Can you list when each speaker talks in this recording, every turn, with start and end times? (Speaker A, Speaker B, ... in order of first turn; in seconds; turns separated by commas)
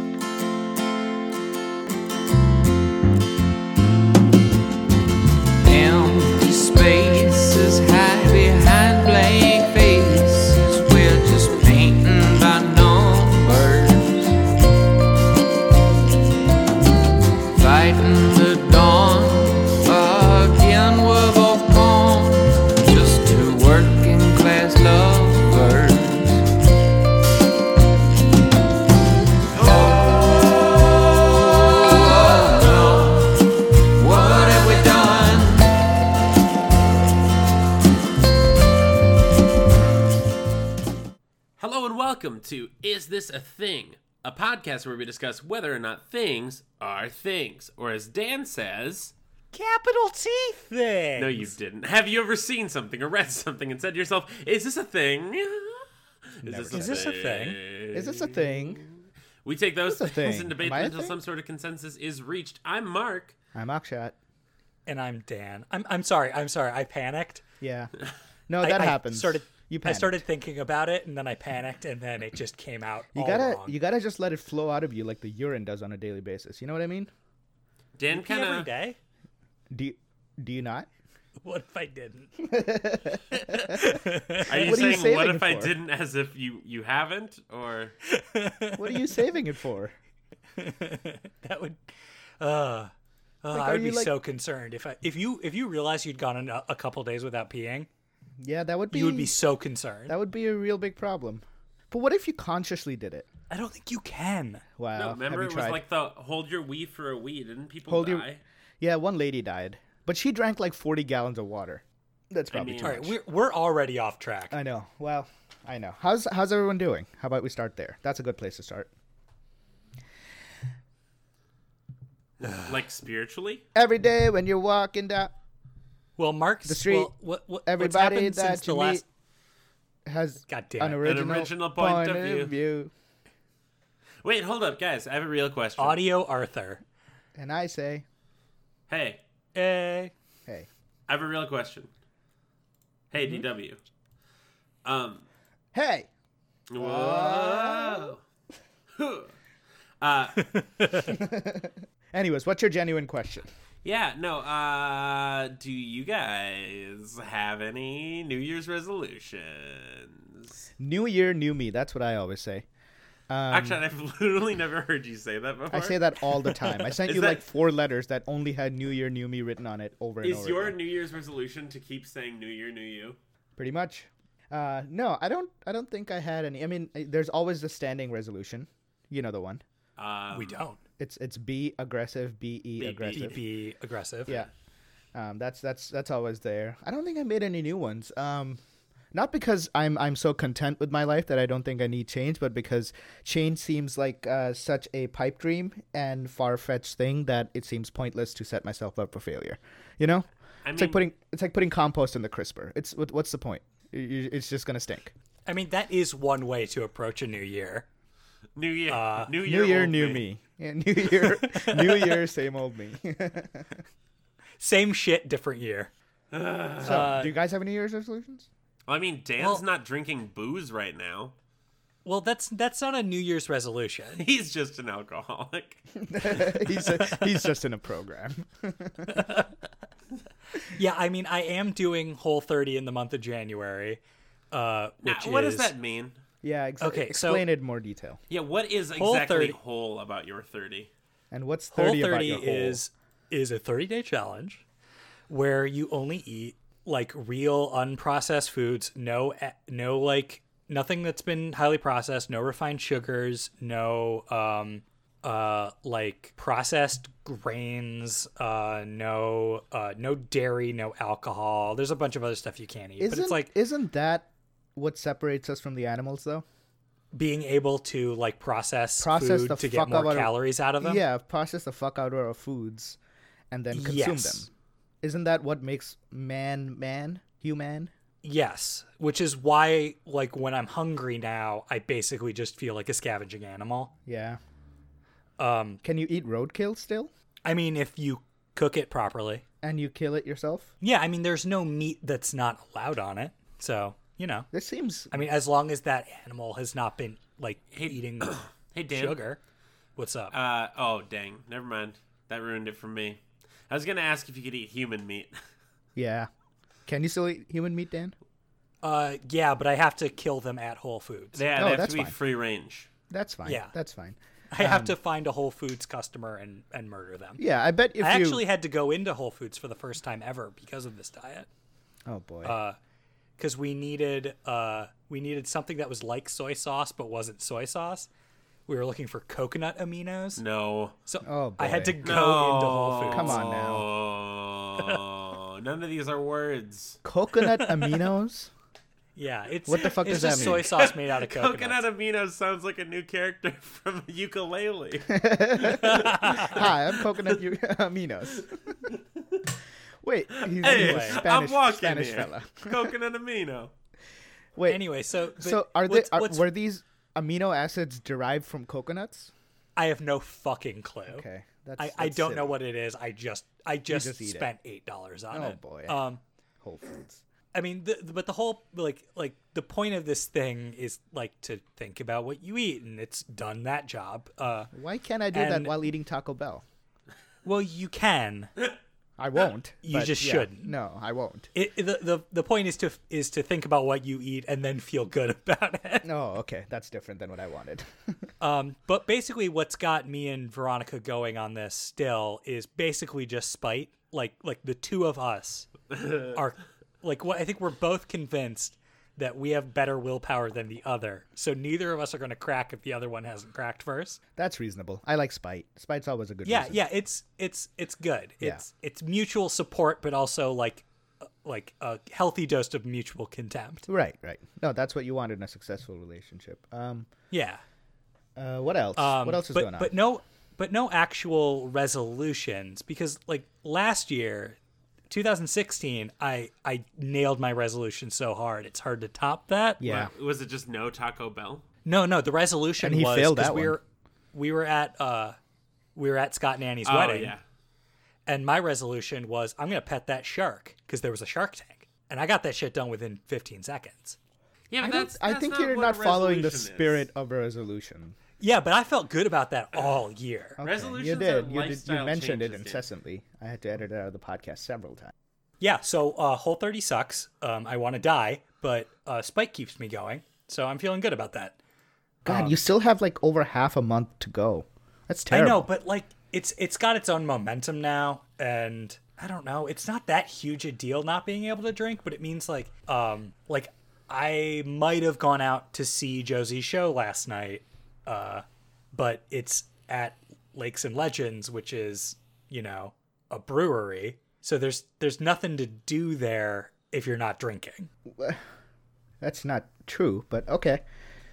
Speaker A: 5.6-14.3, Speaker A: 17.6-26.5, Speaker A: 29.5-35.8, Speaker B: 41.6-49.1, Speaker C: 49.5-51.5, Speaker B: 51.2-55.9, Speaker B: 56.4-63.4, Speaker D: 56.4-57.1, Speaker C: 56.7-57.6, Speaker D: 57.9-58.9, Speaker D: 59.9-61.2, Speaker D: 63.5-64.2, Speaker C: 64.9-67.4, Speaker D: 67.6-67.9, Speaker D: 68.5-70.2, Speaker C: 68.6-73.8, Speaker D: 73.1-77.1, Speaker B: 78.0-78.7, Speaker C: 78.1-79.0, Speaker D: 79.7-80.9, Speaker C: 81.4-82.4, Speaker D: 82.4-85.7, Speaker C: 83.3-84.7, Speaker B: 84.5-87.9, Speaker C: 88.1-89.3, Speaker D: 88.8-89.9, Speaker C: 90.6-92.9, Speaker C: 93.4-97.9, Speaker D: 93.5-94.1, Speaker D: 98.4-99.3, Speaker C: 98.9-100.2, Speaker D: 100.1-103.3, Speaker C: 103.5-104.6, Speaker D: 104.8-105.8, Speaker B: 105.0-108.4, Speaker D: 107.9-108.2, Speaker D: 108.8-113.1, Speaker B: 112.5-113.1, Speaker C: 112.8-114.6, Speaker D: 114.5-118.9, Speaker B: 122.4-123.6, Speaker D: 123.8-125.3, Speaker C: 126.2-129.0, Speaker D: 126.7-127.1, Speaker D: 127.7-129.0, Speaker D: 130.1-132.9, Speaker C: 130.5-131.1, Speaker B: 131.0-132.5, Speaker B: 134.2-136.0, Speaker C: 135.8-136.8, Speaker D: 137.4-138.1, Speaker B: 138.9-139.2, Speaker C: 139.6-140.1, Speaker B: 141.1-141.9, Speaker B: 143.1-143.8, Speaker B: 144.8-145.2, Speaker D: 145.7-146.1, Speaker B: 146.7-148.2, Speaker D: 146.8-148.1, Speaker B: 149.0-149.3, Speaker B: 150.0-151.0, Speaker C: 150.5-151.1, Speaker D: 151.1-153.5, Speaker B: 153.8-160.7, Speaker D: 160.8-162.7, Speaker D: 163.3-163.8, Speaker B: 163.5-166.0, Speaker D: 165.7-170.8, Speaker B: 166.8-167.4, Speaker B: 170.2-173.2, Speaker D: 173.6-179.6, Speaker B: 180.0-180.6, Speaker C: 180.3-180.8, Speaker D: 181.0-183.4, Speaker B: 182.8-183.4, Speaker C: 183.1-184.3, Speaker D: 185.1-188.6, Speaker D: 189.1-205.1, Speaker B: 200.6-201.0, Speaker C: 205.5-207.9, Speaker B: 208.6-210.2, Speaker C: 208.9-209.3, Speaker D: 209.4-213.8, Speaker C: 211.4-212.2, Speaker C: 214.6-215.9, Speaker B: 216.3-217.0, Speaker C: 216.8-217.3, Speaker D: 216.8-218.5, Speaker B: 218.9-221.3, Speaker C: 219.4-219.6, Speaker C: 222.1-224.3, Speaker B: 224.2-226.6, Speaker D: 226.0-229.2, Speaker C: 227.0-227.3, Speaker C: 229.1-229.5, Speaker C: 230.7-234.0, Speaker C: 234.5-235.7, Speaker B: 235.0-236.2, Speaker D: 236.4-238.2, Speaker C: 236.8-237.4, Speaker B: 238.3-240.9, Speaker C: 239.0-239.6, Speaker D: 241.3-242.8, Speaker C: 241.7-244.6, Speaker C: 245.3-263.5, Speaker D: 263.0-266.4, Speaker C: 267.1-271.0, Speaker D: 269.0-273.0, Speaker D: 273.5-274.5, Speaker C: 273.7-274.5, Speaker D: 275.0-277.9, Speaker C: 278.2-283.9, Speaker D: 284.1-284.4, Speaker C: 285.4-285.8, Speaker D: 285.8-287.1, Speaker C: 287.4-289.4, Speaker D: 289.6-290.7, Speaker C: 290.8-294.5, Speaker D: 294.5-295.1, Speaker C: 295.1-299.4, Speaker B: 297.8-299.2, Speaker C: 300.0-300.3, Speaker B: 300.3-305.3, Speaker D: 306.0-306.3, Speaker D: 306.9-308.1, Speaker C: 308.8-311.4, Speaker B: 311.4-312.9, Speaker D: 311.6-312.2, Speaker D: 313.1-314.9, Speaker C: 313.4-313.7, Speaker C: 314.5-317.4, Speaker D: 317.4-318.4, Speaker C: 318.0-321.5, Speaker D: 322.1-322.6, Speaker C: 322.4-322.8, Speaker C: 323.4-328.1, Speaker C: 328.7-330.4, Speaker B: 330.4-331.0, Speaker C: 331.1-333.4, Speaker D: 331.2-332.2, Speaker B: 332.0-337.0, Speaker D: 333.1-333.9, Speaker D: 337.0-338.5, Speaker C: 337.4-338.1, Speaker C: 339.2-341.8, Speaker D: 339.7-340.7, Speaker B: 340.1-347.4, Speaker D: 345.1-348.8, Speaker C: 345.6-346.6, Speaker B: 348.9-349.5, Speaker D: 350.0-352.9, Speaker B: 350.4-353.7, Speaker C: 350.7-351.2, Speaker D: 354.6-354.8, Speaker C: 354.7-356.5, Speaker D: 355.4-359.3, Speaker C: 359.8-361.3, Speaker D: 361.1-362.6, Speaker C: 361.8-366.2, Speaker D: 363.9-364.5, Speaker D: 365.3-366.0, Speaker D: 366.6-367.2, Speaker C: 367.5-374.7, Speaker D: 374.7-376.6, Speaker C: 375.3-375.8, Speaker C: 377.4-378.5, Speaker D: 379.2-381.5, Speaker C: 379.8-380.8, Speaker C: 381.5-386.1, Speaker D: 386.0-388.2, Speaker C: 388.4-404.2, Speaker B: 395.9-396.4, Speaker D: 404.4-406.8, Speaker C: 406.4-413.9, Speaker D: 413.9-417.1, Speaker C: 417.3-417.6, Speaker D: 418.4-419.9, Speaker C: 419.0-424.6, Speaker C: 425.1-429.8, Speaker D: 429.8-430.1, Speaker B: 429.8-431.6, Speaker C: 431.9-435.4, Speaker D: 432.8-433.8, Speaker C: 435.9-437.4, Speaker B: 436.8-437.4, Speaker C: 438.3-444.2, Speaker B: 444.7-447.1, Speaker D: 444.8-448.2, Speaker C: 448.4-450.6, Speaker D: 450.6-455.1, Speaker B: 450.6-452.8, Speaker C: 455.6-461.6, Speaker D: 462.2-465.6, Speaker C: 462.3-462.6, Speaker C: 465.3-487.9, Speaker D: 488.1-488.4, Speaker D: 489.2-490.8